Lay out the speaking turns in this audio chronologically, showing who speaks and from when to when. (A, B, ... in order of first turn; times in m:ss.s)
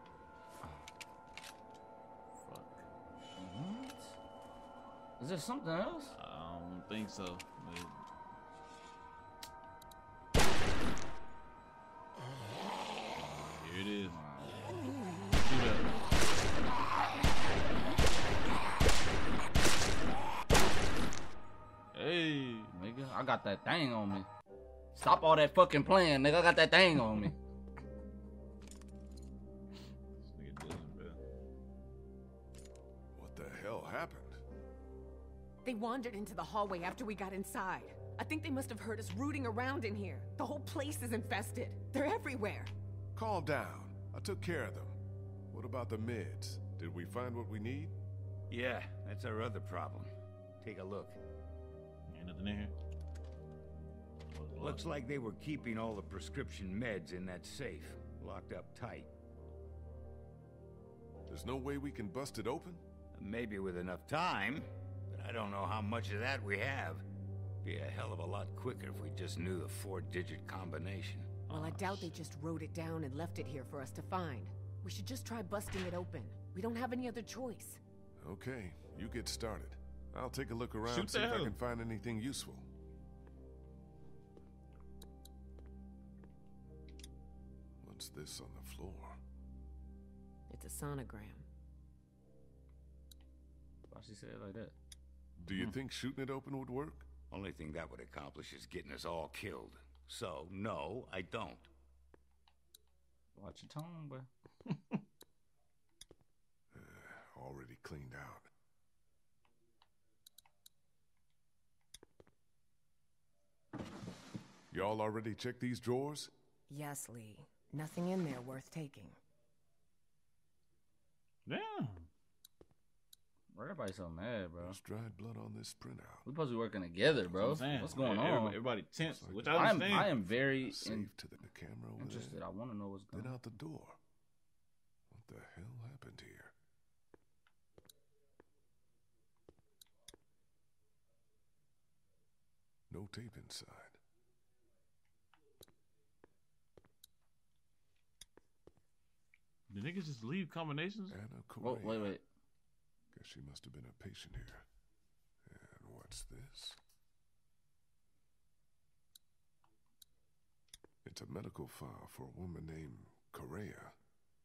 0:00.6-0:00.9 A
0:02.4-0:02.9 B
0:03.4-0:04.2 A
0:05.2-0:06.1 A
0:06.2-0:07.9 B
0:13.4-0:14.2 B
0:14.0-0:14.6 A
0:15.3-0:15.9 B
0:21.9-0:22.7 B
0:22.7-0:24.3 A
0:24.9-0:27.4 A
0:30.2-0:31.2 B
0:33.1-0:34.4 C
0:35.6-0:42.7 D
0:43.1-0:45.0 C
0:45.5-0:47.9 C
0:48.5-0:51.2 E
0:52.1-0:52.7 B
0:54.3-0:54.8 B
0:54.6-0:59.1 E
1:01.3-1:02.8 C
1:03.1-1:07.0 E
1:07.6-1:11.4 E
1:11.5-1:12.1 B
1:11.5-1:17.8 D
1:18.2-1:22.7 C
1:20.8-1:21.6 B
1:27.8-1:29.2 C
1:30.5-1:31.5 D
1:33.9-1:34.7 A
1:35.4-1:35.8 B
1:35.4-1:37.0 C
1:37.3-1:41.7 E
1:43.4-1:44.3 A
1:44.7-1:45.0 B
1:46.7-1:48.5 C
1:54.7-1:56.3 C
1:56.7-1:59.2 D
2:01.5-2:02.1 B
2:03.5-2:04.8 A
2:04.6-2:06.2 C
2:06.2-2:08.6 A
2:07.3-2:08.1 C
2:07.4-2:10.1 B
2:09.0-2:12.4 C
2:09.5-2:11.1 A
2:12.0-2:13.4 A
2:13.1-2:14.0 C
2:15.1-2:16.5 C
2:22.9-2:24.0 C
2:29.7-2:31.2 B
2:31.1-2:32.2 C
2:31.6-2:32.2 A
2:33.1-2:34.6 C
2:35.4-2:36.8 C
2:41.0-2:43.9 C